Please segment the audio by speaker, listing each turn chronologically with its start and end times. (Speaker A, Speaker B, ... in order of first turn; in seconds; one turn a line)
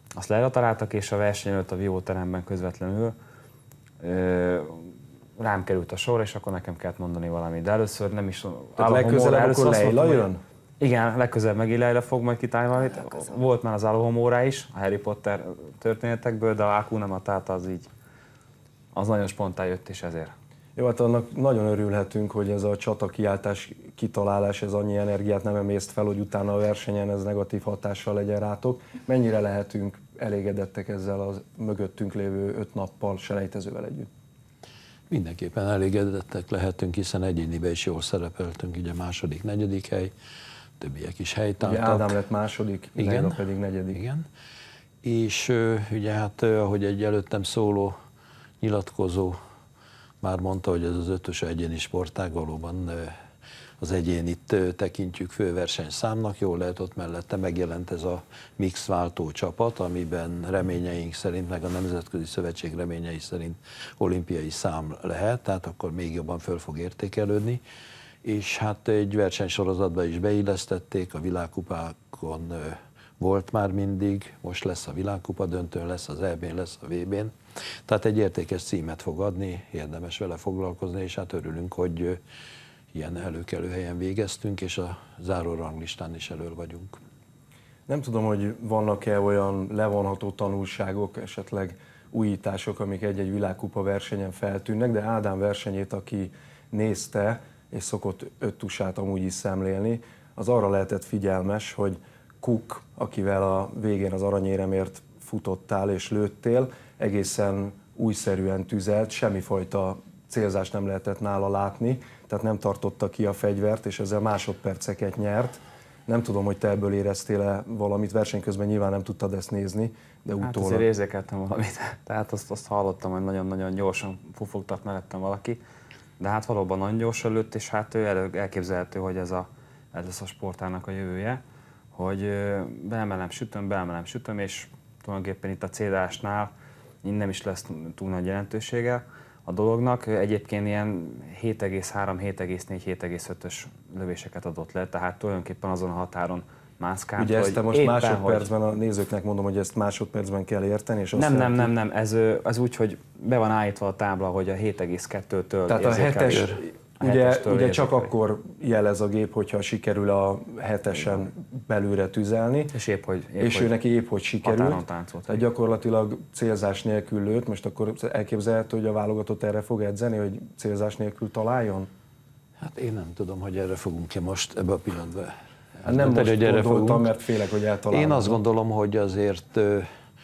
Speaker A: 0.1-3.1
Speaker A: 4.0-17.9
Speaker B: 8.8-10.4
Speaker A: 18.9-20.3
Speaker B: 20.8-34.1
Speaker C: 35.1-40.1
Speaker C: 40.8-42.2
Speaker B: 41.6-44.0
Speaker C: 43.0-44.3
Speaker C: 45.0-48.0
Speaker C: 48.6-49.4
Speaker C: 50.2-53.2
Speaker C: 53.8-67.6
Speaker C: 68.2-77.3
Speaker C: 77.9-82.2
Speaker C: 82.9-87.0
Speaker B: 87.9-120.9
Speaker A: 120.4-125.6
Speaker A: 126.2-131.4
Speaker A: 131.9-136.5
Speaker A: 137.0-148.5
Speaker B: 147.2-151.7
Speaker A: 151.2-158.1
Speaker B: 155.7-162.8
Speaker C: 156.3-156.6
Speaker A: 162.7-163.7
Speaker B: 163.4-171.9
Speaker A: 164.4-165.5
Speaker C: 172.6-177.2
Speaker B: 175.8-178.4
Speaker C: 177.9-179.9